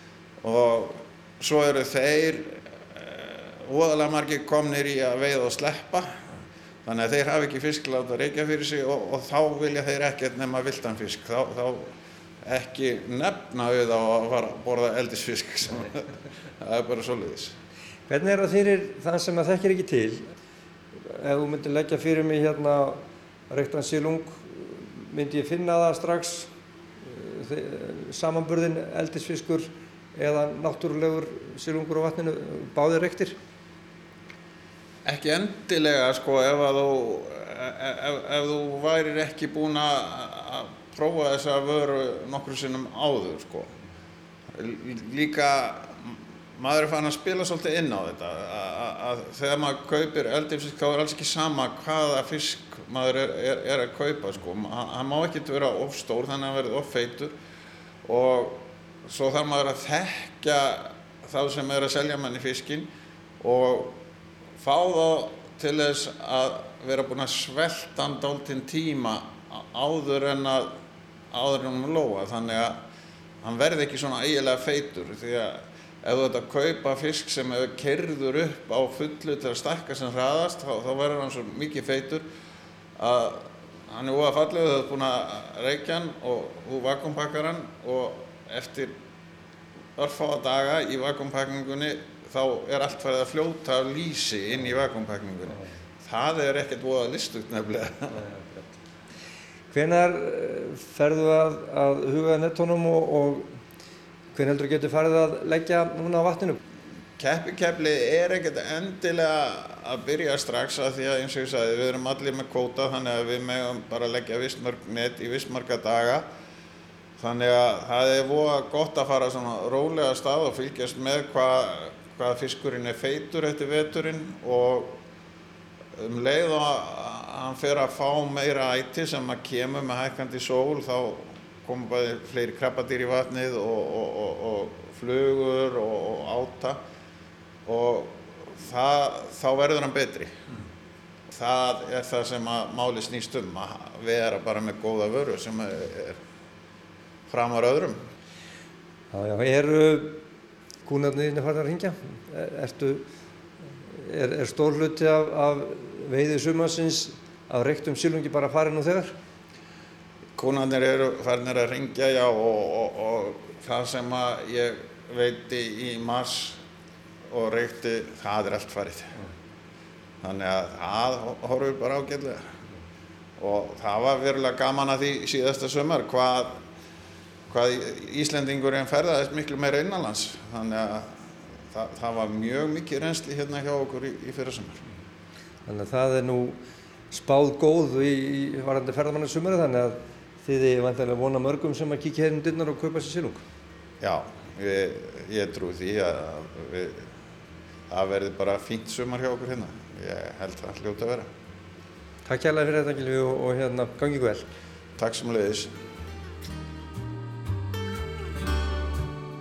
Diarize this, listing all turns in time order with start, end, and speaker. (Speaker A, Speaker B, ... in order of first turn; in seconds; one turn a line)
Speaker A: 0.4-6.2
Speaker A: 6.8-17.6
Speaker B: 18.1-20.3
Speaker B: 21.1-33.4
Speaker A: 35.0-43.8
Speaker A: 44.5-57.4
Speaker A: 58.0-64.0
Speaker A: 64.6-70.8
Speaker A: 71.3-72.9
Speaker A: 73.4-82.3
Speaker A: 83.0-89.0
Speaker A: 90.0-98.6
Speaker B: 99.7-103.6
Speaker B: 104.3-106.6
Speaker A: 107.2-116.3
Speaker A: 117.2-125.0
Speaker A: 126.0-136.8
Speaker A: 137.7-140.3
Speaker A: 141.3-146.2
Speaker A: 147.3-148.1
Speaker B: 149.1-150.3
Speaker B: 150.8-153.1
Speaker B: 153.9-159.2
Speaker A: 160.4-166.6
Speaker A: 167.3-169.2
Speaker A: 170.2-172.6
Speaker A: 173.4-176.6
Speaker A: 177.5-184.9
Speaker B: 185.7-193.4
Speaker A: 194.0-197.1
Speaker A: 197.9-201.3
Speaker B: 202.2-204.5
Speaker A: 205.0-205.7